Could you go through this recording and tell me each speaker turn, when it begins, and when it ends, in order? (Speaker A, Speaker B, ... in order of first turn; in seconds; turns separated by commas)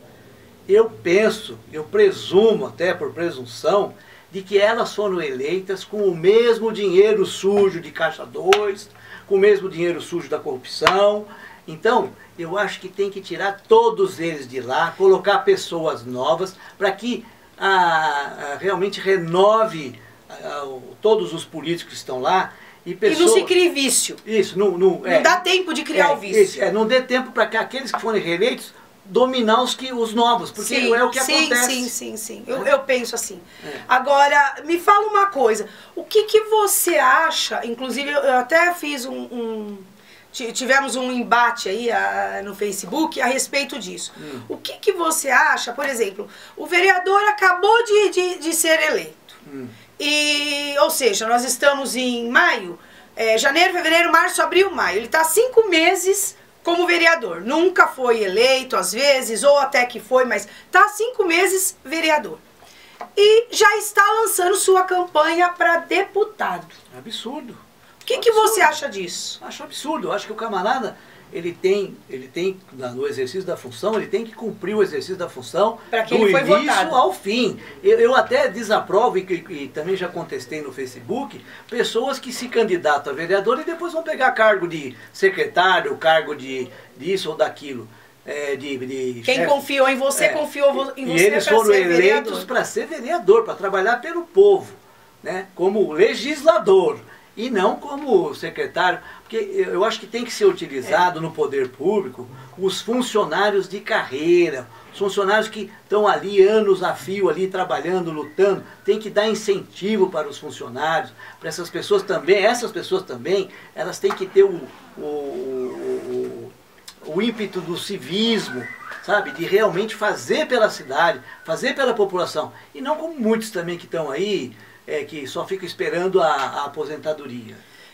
Speaker A: 0.7-23.6, Speaker B: 23.1-24.2, Speaker A: 24.2-31.9, Speaker B: 25.1-26.6, Speaker B: 30.6-49.4, Speaker A: 44.2-44.5, Speaker A: 49.4-49.8, Speaker B: 50.0-62.4, Speaker B: 63.2-66.8, Speaker A: 66.9-68.8, Speaker B: 68.1-69.4, Speaker A: 69.4-116.5, Speaker B: 75.9-77.0, Speaker B: 89.2-92.5, Speaker A: 117.0-127.6